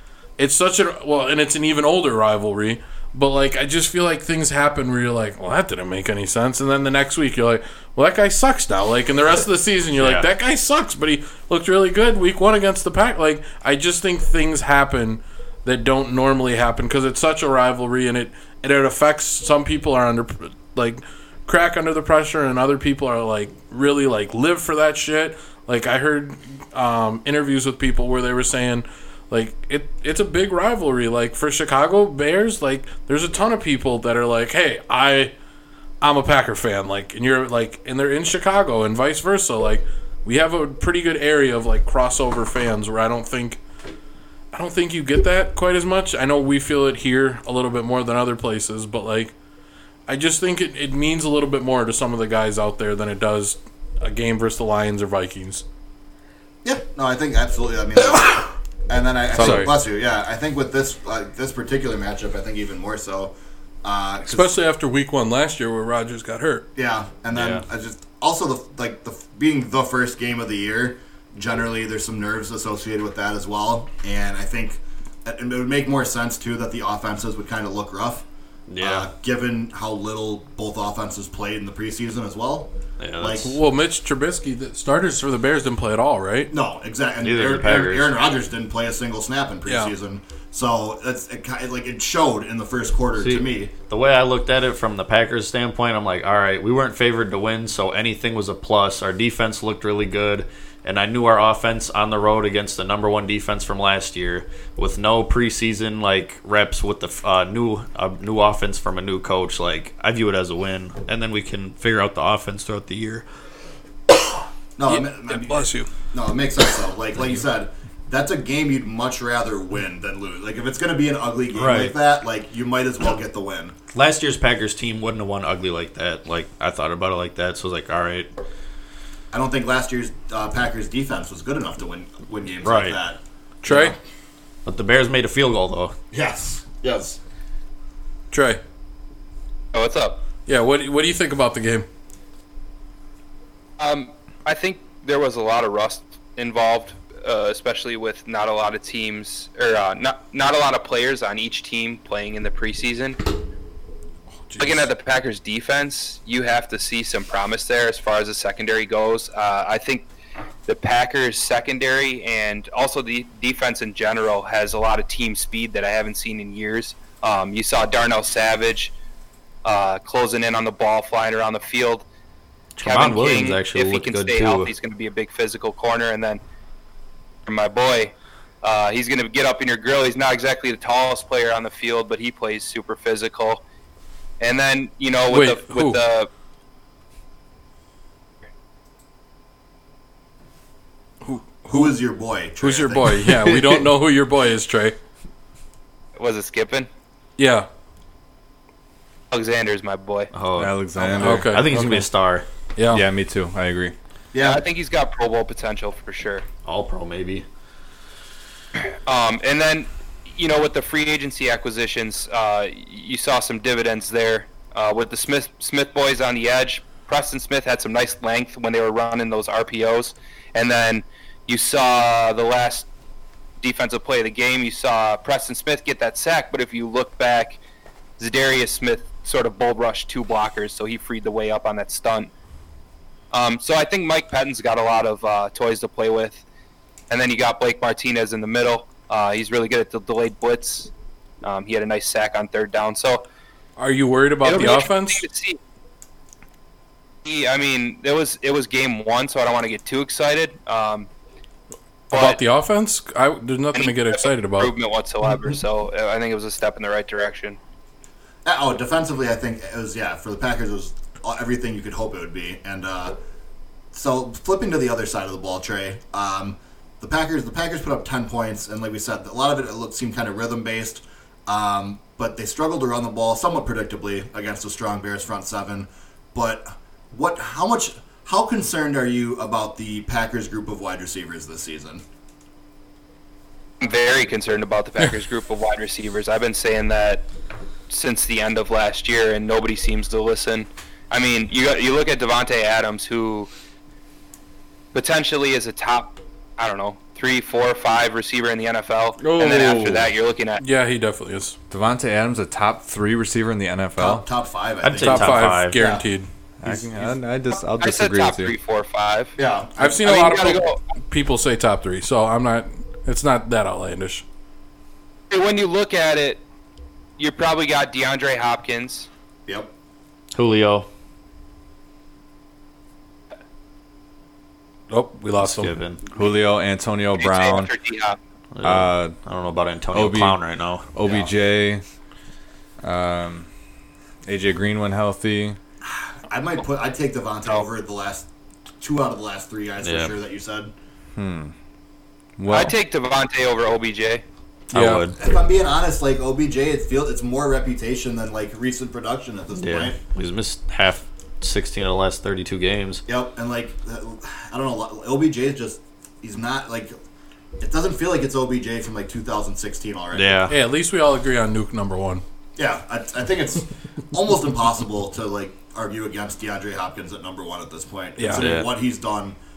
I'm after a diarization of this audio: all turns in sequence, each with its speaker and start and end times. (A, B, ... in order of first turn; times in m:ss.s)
0:00.4-0:35.3 A
0:10.0-0:10.2 B
0:36.0-0:43.6 A
0:44.5-0:49.3 A
0:50.1-0:55.6 A
0:56.6-1:04.5 C
0:59.3-0:59.7 D
1:04.2-1:06.6 A
1:06.8-1:18.2 C
1:07.3-1:07.6 B
1:18.7-1:19.1 B
1:18.8-1:23.5 C
1:23.0-1:23.5 B
1:23.4-1:26.5 A
1:26.5-1:33.7 C
1:27.2-1:28.1 B
1:29.6-1:29.9 A
1:33.2-1:53.2 B
1:54.8-2:03.7 C
1:54.9-1:55.9 A
2:01.5-2:01.9 B
2:03.9-2:08.3 B
2:09.3-2:14.0 C
2:12.6-2:13.0 B
2:13.6-2:14.0 A
2:14.6-2:15.9 B
2:16.1-2:17.2 C
2:18.3-2:18.6 A
2:19.7-2:20.2 E
2:20.4-2:21.8 A
2:23.8-2:33.2 E
2:34.5-2:34.9 A
2:34.6-2:40.1 E
2:40.7-2:48.9 E
2:49.6-2:52.0 E
2:52.8-2:54.7 B
2:52.8-2:56.4 E
2:57.4-3:03.6 E
3:04.4-3:06.3 E
3:05.3-3:06.0 A
3:11.2-3:12.0 A
3:11.7-3:13.3 C
3:12.6-3:15.0 A
3:16.2-3:16.9 E
3:17.4-3:17.7 A
3:19.3-3:20.3 E
3:20.3-3:22.4 B
3:20.5-3:21.6 D
3:21.2-3:22.1 A
3:22.8-3:23.0 A
3:22.9-3:23.9 D
3:24.3-3:24.6 C
3:24.4-3:26.4 E
3:26.6-3:27.4 B
3:29.0-3:42.9 E
3:43.6-3:47.6 E
3:48.2-3:52.3 E
3:53.3-3:56.4 E
3:57.1-4:00.9 E
4:01.4-4:03.2 E
4:03.8-4:05.2 A
4:04.4-4:05.6 E
4:07.2-4:11.1 E
4:12.1-4:12.4 E
4:12.1-4:14.7 A
4:13.7-4:17.6 E
4:18.4-4:23.1 C
4:23.9-4:42.0 C
4:43.8-4:47.2 E
4:47.9-4:53.5 E
4:54.9-5:00.6 E
4:59.2-5:00.1 D
5:00.6-5:01.6 A
5:01.7-5:04.2 D
5:04.0-5:06.0 C
5:04.8-5:05.8 B
5:05.0-5:06.3 A
5:06.6-5:08.5 D
5:07.8-5:09.3 E
5:09.4-5:10.0 C
5:09.8-5:14.2 A
5:10.0-5:10.8 E
5:15.3-5:16.4 E
5:17.2-5:19.1 E
5:20.3-5:20.9 B
5:24.9-5:25.8 A
5:25.4-5:26.0 B
5:26.1-5:27.7 D
5:27.2-5:28.2 E
5:28.5-5:31.3 B
5:28.6-5:29.2 D
5:29.9-5:30.4 D
5:30.9-5:31.8 D
5:32.8-5:33.5 D
5:34.2-5:35.6 D
5:35.8-5:38.3 C
5:38.8-5:40.7 C
5:39.8-5:40.1 B
5:41.2-5:41.5 D
5:42.4-5:42.7 D
5:42.5-5:44.2 E
5:44.7-5:45.2 B
5:44.7-5:45.0 A
5:45.2-5:50.0 C
5:49.6-5:53.0 B
5:53.1-5:56.9 C
5:57.6-6:00.4 C
6:00.1-6:00.5 B
6:00.5-6:02.2 A
6:02.6-6:09.4 C
6:08.2-6:08.5 A
6:08.3-6:08.7 B